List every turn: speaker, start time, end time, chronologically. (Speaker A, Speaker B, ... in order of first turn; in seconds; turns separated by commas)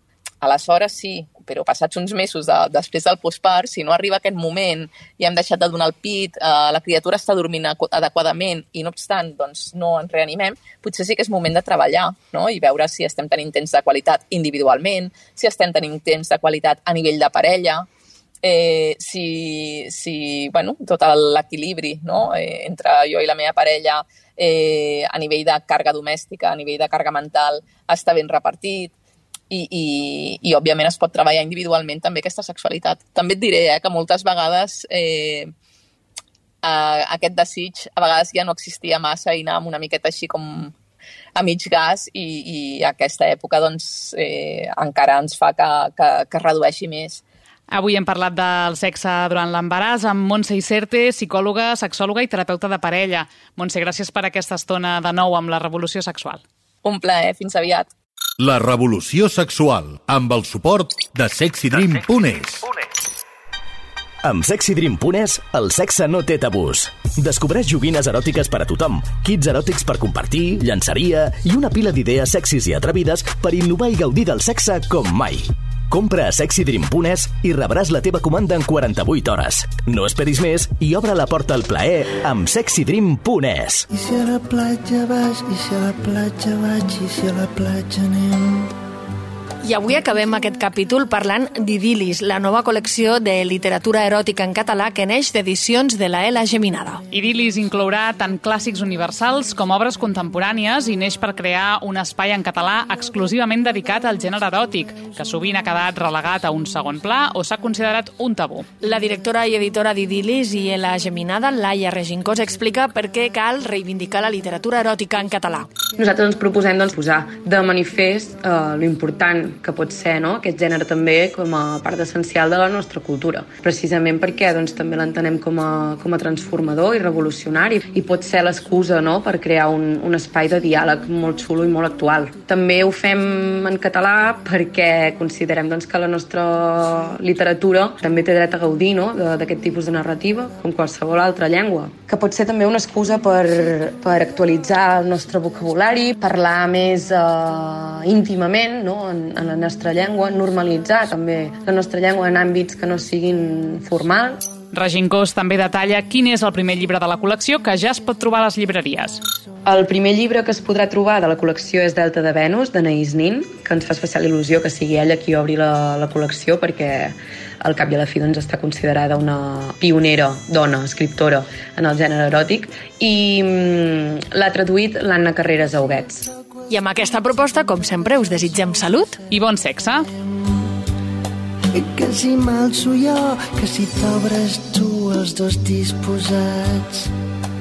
Speaker A: 0.4-17.9, Speaker A: 18.4-28.9, Speaker A: 29.5-35.5, Speaker A: 36.6-40.7, Speaker A: 41.4-47.2, Speaker B: 47.7-56.4, Speaker A: 56.8-57.9, Speaker C: 58.4-62.8, Speaker D: 64.2-83.8, Speaker E: 83.9-88.7, Speaker F: 89.6-97.0, Speaker B: 97.1-108.7, Speaker F: 108.8-115.7, Speaker G: 116.0-154.4, Speaker B: 154.7-159.2, Speaker G: 159.7-176.2, Speaker F: 176.7-179.2, Speaker B: 179.3-180.1, Speaker E: 180.3-180.7, Speaker E: 181.7-187.1